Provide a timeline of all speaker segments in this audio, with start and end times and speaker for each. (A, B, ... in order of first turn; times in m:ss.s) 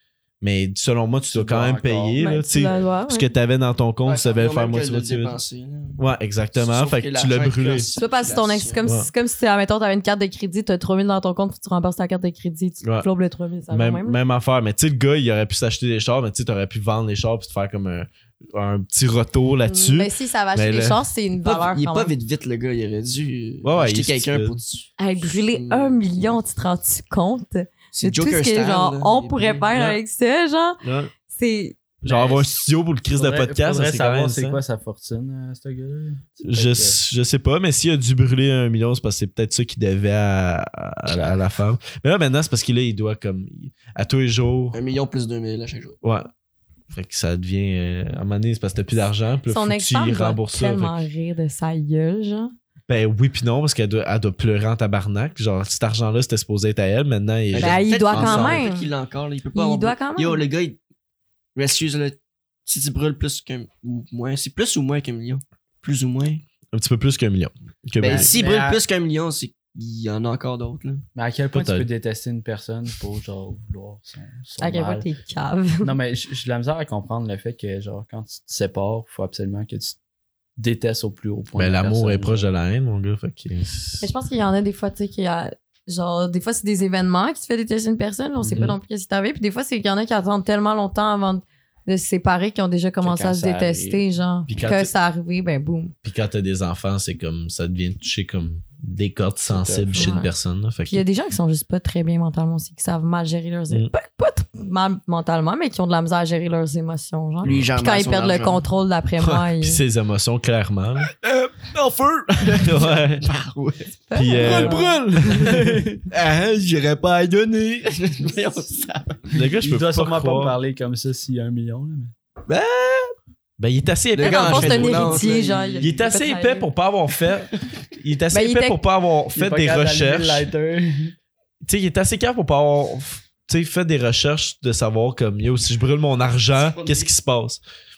0:00.4-0:05.4 A
0:01.2-0:02.2 B
0:02.2-0:03.3 C
0:04.0-0:06.0 D
0:06.0-0:07.9 A
0:06.6-0:08.8 D
0:08.0-0:14.2 C
0:13.7-0:21.0 A
0:19.7-0:22.1 C
0:21.4-0:26.0 D
0:23.6-0:24.6 A
0:25.0-0:31.8 C
0:27.9-0:30.0 D
0:30.8-0:31.1 A
0:32.0-0:34.6 A
0:32.1-0:32.4 B
0:33.1-0:37.0 B
0:36.5-0:44.8 A
0:44.7-0:46.0 D
0:46.0-0:46.3 A
0:46.9-0:51.0 A
0:49.5-0:52.5 C
0:52.9-0:58.6 A
0:57.5-1:00.8 D
0:57.5-0:58.9 C
0:59.5-1:00.4 C
1:01.6-1:06.4 D
1:06.7-1:08.3 A
1:08.0-1:11.0 D
1:08.0-1:08.8 B
1:11.1-1:15.1 B
1:11.5-1:11.9 A
1:14.6-1:15.9 C
1:15.8-1:20.0 B
1:20.6-1:22.5 B
1:21.6-1:24.1 A
1:24.0-1:35.9 C
1:28.4-1:28.8 B
1:33.0-1:34.0 B
1:34.5-1:34.9 A
1:36.0-1:41.0 A
1:39.5-1:40.1 B
1:39.9-1:40.3 C
1:40.9-1:49.8 C
1:47.4-1:48.6 D
1:49.2-1:51.1 A
1:51.0-1:59.3 D
1:52.5-1:53.3 A
1:54.1-1:55.0 C
1:54.1-1:55.8 A
1:55.3-1:56.0 B
1:59.3-2:00.6 A
1:59.5-2:02.1 B
2:02.5-2:03.1 D
2:03.6-2:05.3 A
2:04.2-2:06.0 D
2:04.2-2:06.7 C
2:05.3-2:05.6 B
2:05.8-2:10.5 A
2:08.3-2:08.8 C
2:09.4-2:11.1 B
2:11.6-2:17.6 A